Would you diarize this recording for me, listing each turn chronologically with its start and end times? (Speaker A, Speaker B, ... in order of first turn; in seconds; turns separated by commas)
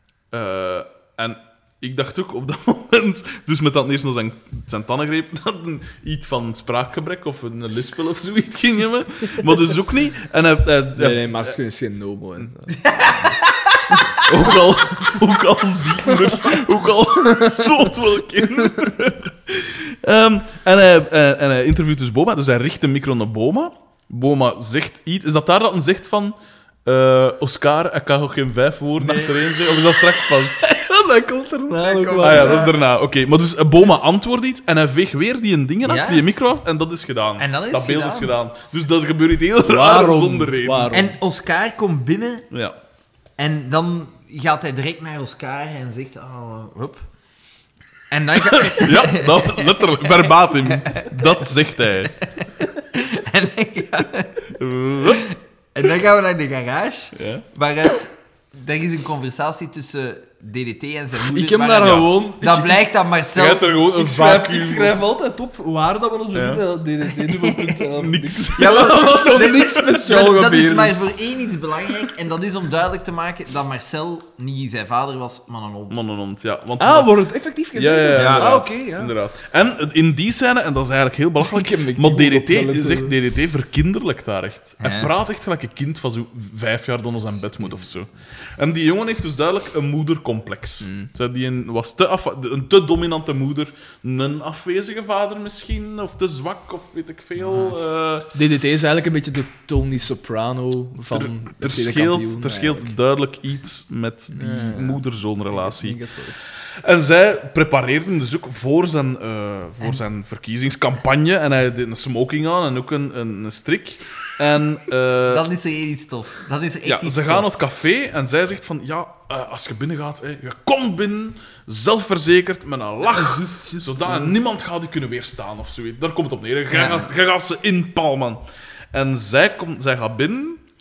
Speaker A: 0.3-11.6, Speaker B: 11.0-12.8, Speaker C: 12.8-14.5, Speaker A: 14.2-30.7, Speaker B: 17.2-17.6, Speaker C: 29.0-29.4, Speaker B: 30.5-32.7, Speaker C: 31.8-32.8, Speaker A: 32.2-40.9, Speaker C: 35.8-36.3, Speaker C: 37.4-38.3, Speaker B: 39.6-41.2, Speaker C: 40.9-42.5, Speaker C: 43.4-47.0, Speaker C: 48.1-51.4, Speaker A: 48.5-52.1, Speaker C: 52.4-54.5, Speaker A: 54.5-55.2, Speaker C: 55.0-63.8, Speaker A: 57.2-57.5, Speaker B: 61.2-62.8, Speaker A: 61.8-62.1, Speaker A: 63.4-65.0, Speaker B: 63.9-71.0, Speaker A: 66.3-66.6, Speaker C: 67.3-67.8, Speaker A: 67.9-69.6, Speaker C: 68.6-76.0, Speaker A: 75.9-77.1, Speaker B: 76.8-79.1, Speaker A: 77.8-98.3, Speaker C: 78.1-78.6, Speaker B: 81.4-83.2, Speaker C: 84.8-85.1, Speaker B: 90.8-91.1, Speaker B: 98.3-103.0, Speaker A: 101.0-106.0, Speaker B: 104.3-106.4, Speaker A: 106.8-115.5, Speaker C: 115.2-117.5, Speaker A: 116.8-128.4, Speaker C: 123.1-124.1, Speaker B: 123.7-124.3, Speaker C: 126.7-127.1, Speaker A: 128.9-130.6